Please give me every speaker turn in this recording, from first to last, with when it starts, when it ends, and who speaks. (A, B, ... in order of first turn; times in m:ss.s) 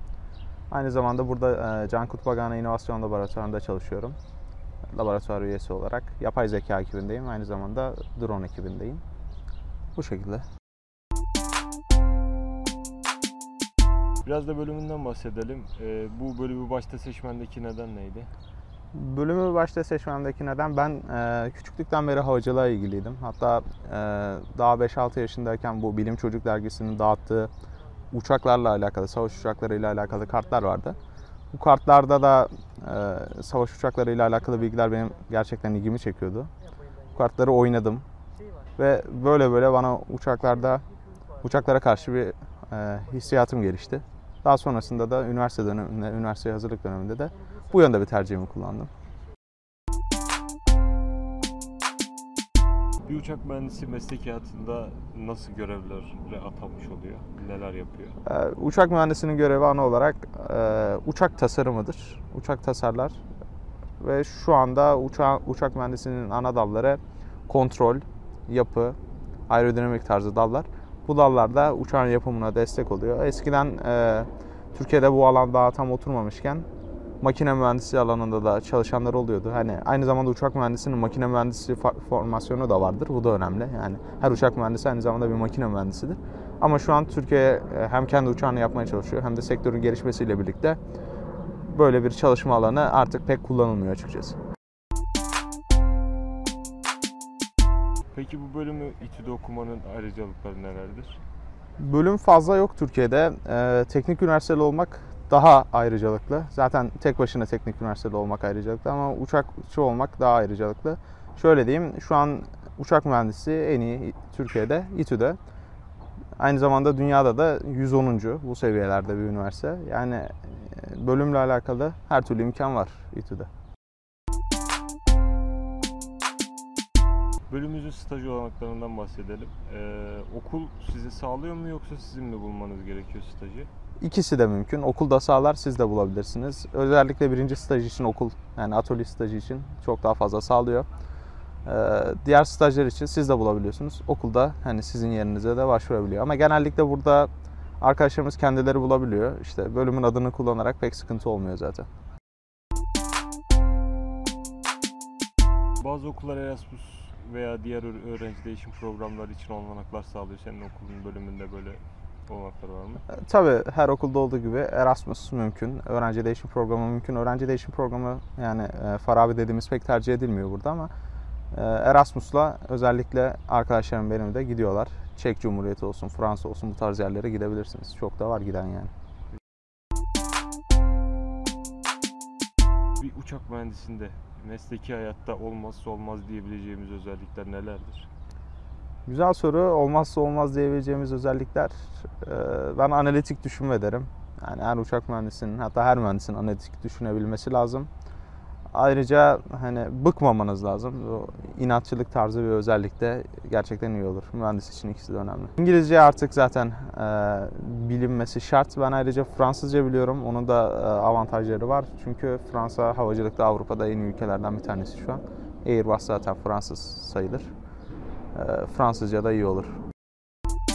0:00.7-0:04.2 A
0:04.9-0:09.0 A
0:10.0-0:10.4 A
0:14.2-0:18.3 B
0:18.9-0:27.5 A
0:28.1-0:31.0 A
0:31.5-0:36.5 A
0:37.1-0:38.0 A
0:38.8-0:40.8 A
0:41.4-0:48.9 A
0:53.0-0:58.2 B
0:58.2-1:03.2 A
1:04.0-1:09.0 A
1:09.5-1:16.6 A
1:17.2-1:30.8 A
1:31.6-1:34.4 A
1:38.1-1:41.2 B
1:41.8-1:55.4 A
1:56.4-2:03.5 A
2:07.5-2:13.7 B
2:14.0-2:20.9 A
2:21.6-2:27.3 A
2:27.8-2:31.9 A
2:35.8-2:43.0 B
2:43.1-2:50.9 A
2:51.5-2:58.9 A
3:03.0-3:08.1 B
3:09.1-3:17.9 A
3:18.7-3:37.5 A
3:38.3-3:39.8 A